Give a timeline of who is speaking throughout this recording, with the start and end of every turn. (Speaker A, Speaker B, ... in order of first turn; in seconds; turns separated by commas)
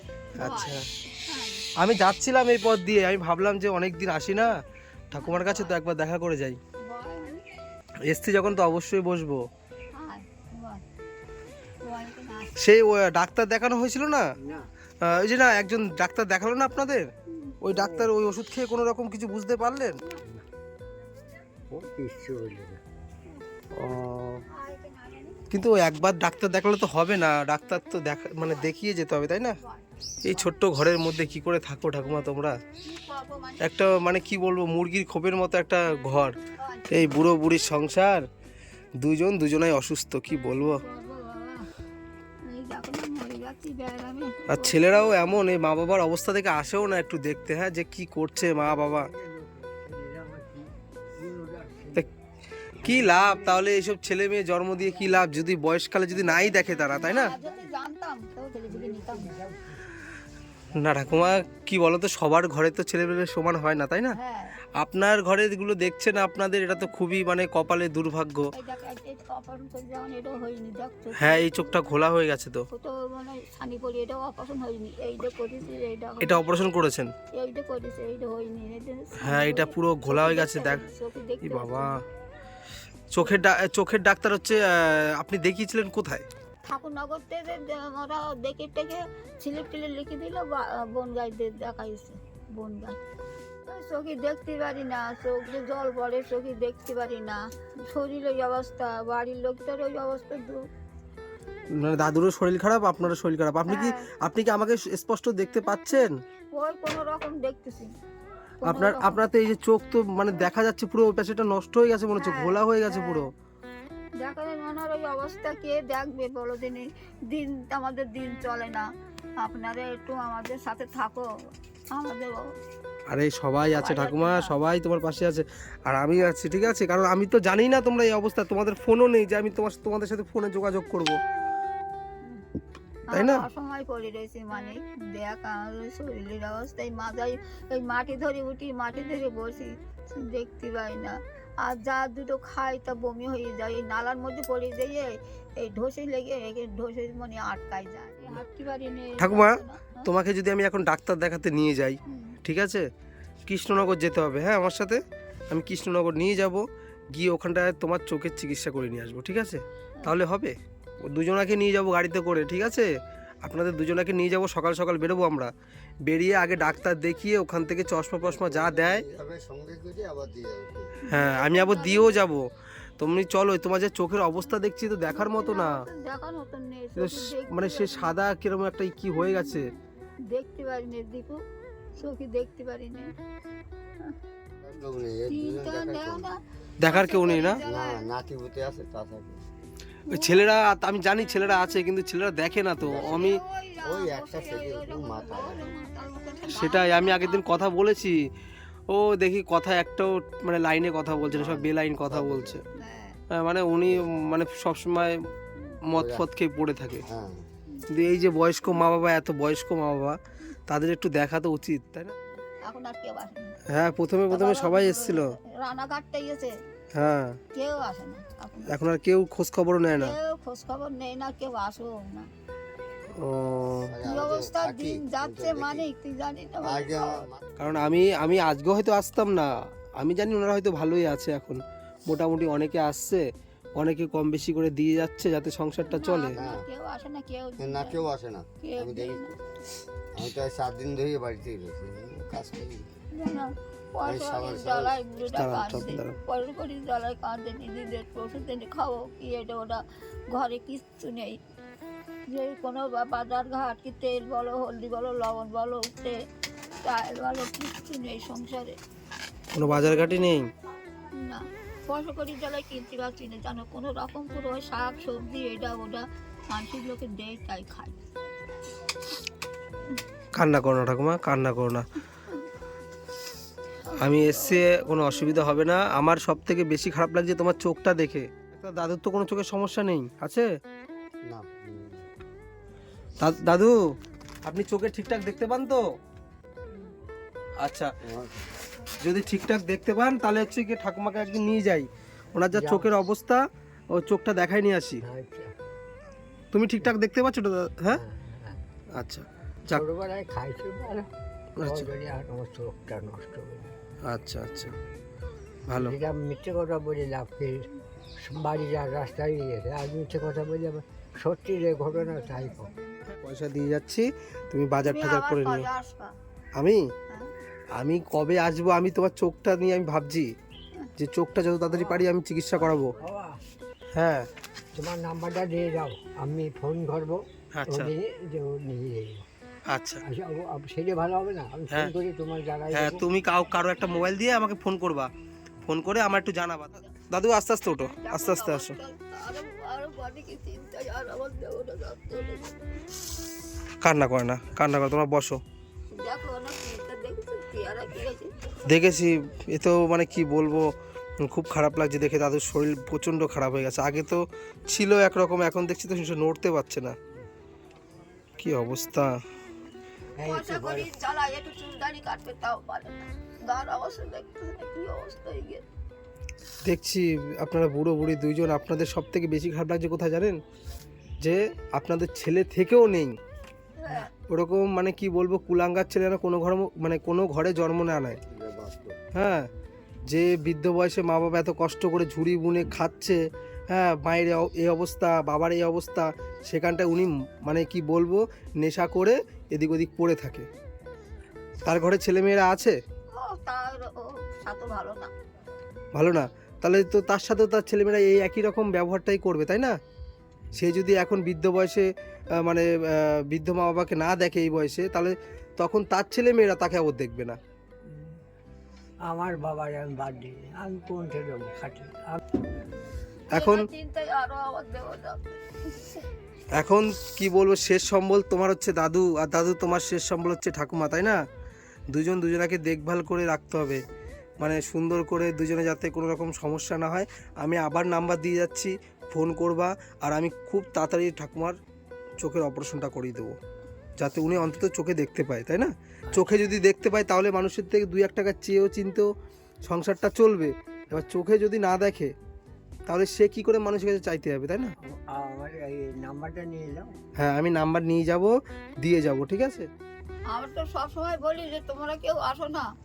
Speaker A: 0.4-1.6, Speaker B: 0.4-0.8, Speaker B: 1.8-4.6, Speaker B: 5.1-6.6, Speaker A: 5.2-5.7, Speaker A: 6.8-7.4, Speaker B: 8.1-9.4, Speaker A: 9.9-10.8, Speaker A: 11.8-12.5, Speaker B: 12.6-14.3, Speaker B: 15.0-17.1, Speaker A: 17.3-17.6, Speaker B: 17.6-20.0, Speaker C: 21.7-22.8, Speaker B: 23.7-24.4, Speaker A: 24.5-25.4, Speaker B: 25.5-29.6, Speaker A: 29.6-30.4, Speaker B: 30.2-32.6, Speaker A: 32.8-33.9, Speaker B: 33.6-36.4, Speaker A: 36.6-37.3, Speaker B: 36.9-38.2, Speaker B: 39.0-40.8, Speaker A: 40.6-41.7, Speaker A: 42.4-45.2, Speaker B: 44.5-49.1, Speaker C: 48.6-52.1, Speaker B: 52.8-57.4, Speaker C: 52.8-53.6, Speaker C: 56.3-56.6, Speaker A: 56.9-59.4, Speaker C: 58.7-59.8, Speaker B: 60.7-64.2, Speaker A: 64.1-64.6, Speaker B: 64.8-68.5, Speaker A: 68.5-71.9, Speaker B: 71.2-72.7, Speaker A: 72.7-76.4, Speaker B: 76.2-77.1, Speaker A: 77.3-82.0, Speaker B: 79.2-80.9, Speaker B: 81.4-82.0, Speaker B: 83.1-86.2, Speaker A: 86.6-93.0, Speaker A: 93.7-100.6, Speaker B: 101.7-106.2, Speaker A: 103.7-104.1, Speaker A: 106.5-107.9, Speaker A: 108.6-109.2, Speaker B: 108.6-113.3, Speaker A: 112.2-113.3, Speaker A: 114.2-118.9, Speaker A: 119.4-121.3, Speaker A: 121.9-122.5, Speaker B: 123.1-131.2, Speaker A: 123.7-124.5, Speaker A: 133.1-150.1, Speaker B: 133.1-133.4, Speaker B: 149.2-152.8, Speaker A: 152.1-152.4, Speaker B: 153.5-162.9, Speaker B: 163.4-165.5, Speaker B: 166.1-169.0, Speaker D: 168.2-171.0, Speaker A: 171.1-172.2, Speaker B: 171.1-175.8, Speaker A: 175.1-178.1, Speaker B: 176.9-179.7, Speaker A: 180.3-181.4, Speaker A: 181.9-183.1, Speaker D: 184.6-186.3, Speaker A: 185.3-188.1, Speaker B: 186.8-187.6, Speaker D: 187.6-189.4, Speaker A: 190.1-190.4, Speaker B: 190.1-193.4, Speaker D: 192.8-195.7, Speaker A: 192.9-197.4, Speaker B: 196.5-198.3, Speaker B: 198.9-202.6, Speaker D: 201.2-202.6, Speaker A: 202.7-203.2, Speaker B: 203.3-205.2, Speaker B: 205.8-207.0, Speaker D: 205.9-206.2, Speaker D: 207.1-207.4, Speaker B: 207.9-212.1, Speaker A: 212.6-213.5, Speaker B: 213.7-215.3, Speaker A: 214.3-216.5, Speaker B: 216.9-217.4, Speaker A: 217.5-218.8, Speaker B: 218.7-220.2, Speaker A: 220.0-222.3, Speaker B: 223.2-223.9, Speaker D: 223.8-225.9, Speaker A: 224.0-227.3, Speaker D: 226.6-228.1, Speaker B: 227.6-233.2, Speaker B: 233.8-236.4, Speaker A: 235.8-238.0, Speaker D: 236.3-236.6, Speaker D: 237.6-239.3, Speaker A: 238.6-239.4, Speaker D: 240.1-242.9, Speaker A: 243.1-251.4, Speaker D: 244.0-245.7, Speaker B: 245.3-246.2, Speaker A: 252.3-256.1, Speaker A: 256.8-258.8, Speaker B: 259.5-260.5, Speaker A: 259.6-260.3, Speaker A: 261.1-268.0, Speaker B: 270.3-271.9, Speaker A: 273.9-275.4, Speaker B: 274.0-280.5, Speaker D: 281.2-282.0, Speaker B: 283.2-283.8, Speaker B: 284.4-285.8, Speaker B: 287.6-287.9, Speaker D: 288.0-288.5, Speaker B: 289.0-295.0, Speaker C: 295.0-295.5, Speaker B: 296.5-298.0, Speaker C: 298.0-298.6, Speaker B: 298.9-299.9, Speaker C: 299.8-301.1, Speaker B: 301.6-301.9, Speaker C: 301.7-303.7, Speaker B: 304.0-304.7, Speaker B: 305.7-306.0, Speaker C: 305.8-307.7, Speaker C: 308.3-312.7, Speaker B: 313.1-315.7, Speaker A: 314.8-316.1, Speaker B: 316.6-316.8, Speaker B: 317.8-320.3, Speaker B: 321.0-322.9, Speaker C: 323.0-323.4, Speaker B: 323.9-324.3, Speaker C: 324.8-329.3, Speaker B: 327.5-327.9, Speaker B: 329.7-330.0, Speaker C: 330.1-332.9, Speaker B: 332.7-335.1, Speaker B: 335.6-338.8, Speaker A: 337.9-342.6, Speaker B: 343.8-345.4, Speaker A: 345.9-348.3, Speaker B: 348.6-356.9, Speaker B: 358.4-359.2, Speaker C: 360.2-360.8, Speaker A: 360.2-365.6, Speaker B: 366.6-370.4, Speaker B: 371.2-373.1, Speaker A: 373.8-374.1, Speaker B: 373.9-378.2, Speaker D: 378.3-379.0, Speaker B: 379.1-379.5, Speaker B: 380.1-390.5, Speaker B: 391.6-392.8, Speaker A: 393.1-395.1, Speaker B: 395.9-399.8, Speaker B: 400.5-407.4, Speaker C: 407.9-408.1, Speaker C: 409.1-412.2, Speaker B: 413.3-413.7, Speaker A: 413.3-416.0, Speaker B: 416.5-421.2, Speaker B: 421.9-423.8, Speaker B: 424.4-431.6, Speaker B: 432.2-433.4, Speaker B: 434.0-439.1, Speaker B: 439.7-442.1, Speaker B: 442.9-444.7, Speaker C: 444.9-446.9, Speaker B: 447.2-449.7, Speaker A: 450.3-452.7